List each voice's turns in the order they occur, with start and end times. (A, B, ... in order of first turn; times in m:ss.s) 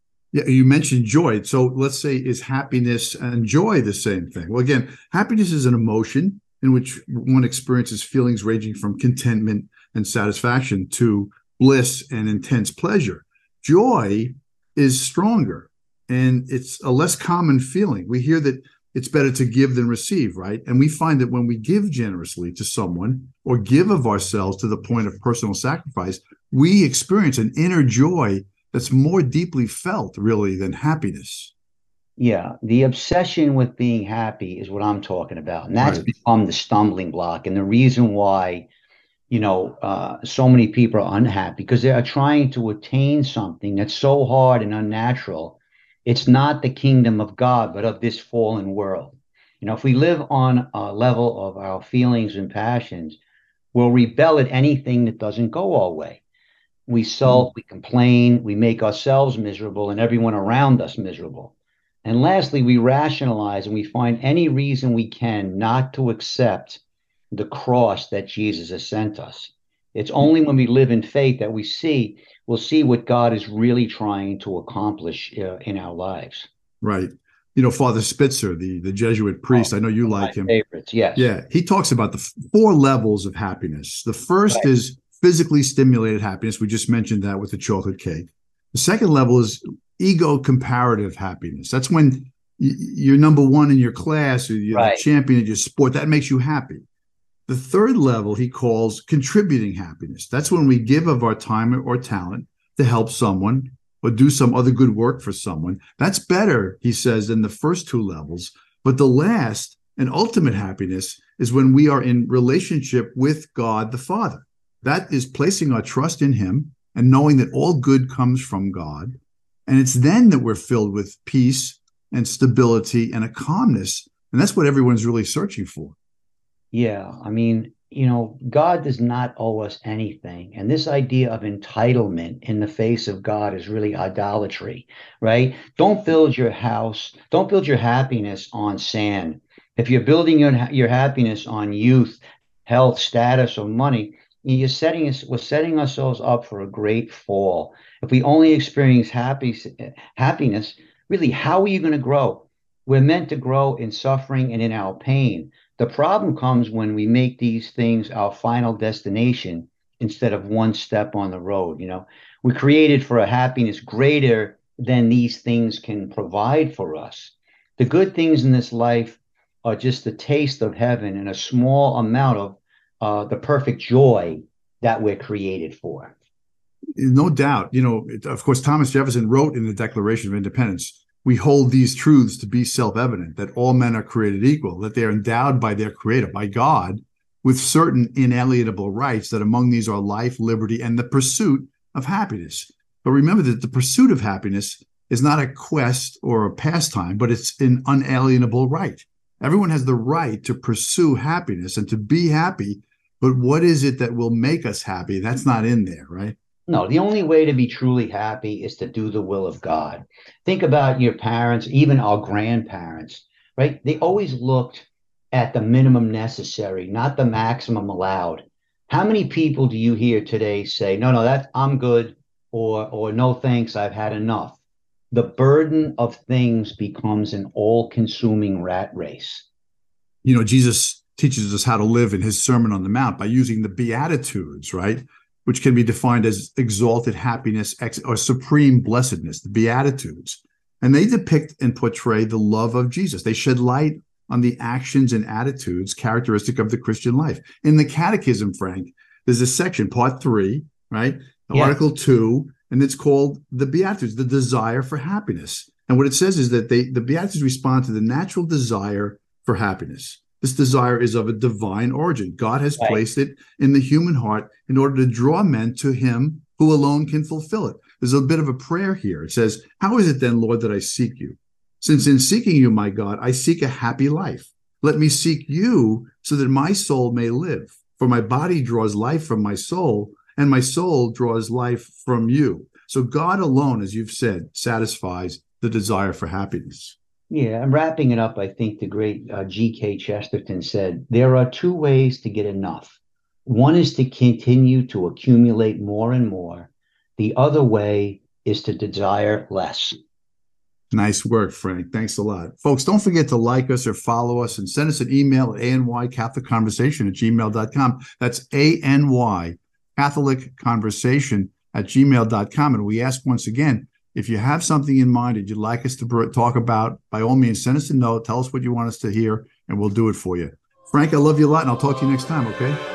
0:00.3-0:31.5 A
0:32.2-0:38.7 B
0:35.8-0:36.1 A
0:39.3-0:53.2 B
0:53.7-0:56.2 B
0:56.9-1:06.8 B
1:07.3-1:16.5 B
1:16.8-1:20.5 A
1:19.5-1:21.3 B
1:21.2-1:36.8 A
1:34.7-1:35.0 B
1:37.5-1:59.2 A
1:59.7-2:06.0 A
2:06.7-2:56.1 B
2:57.0-3:26.4 A
3:26.7-3:44.6 B
3:45.1-3:49.5 B
3:50.2-4:47.0 A
4:47.3-5:00.0 B
5:00.9-5:22.8 A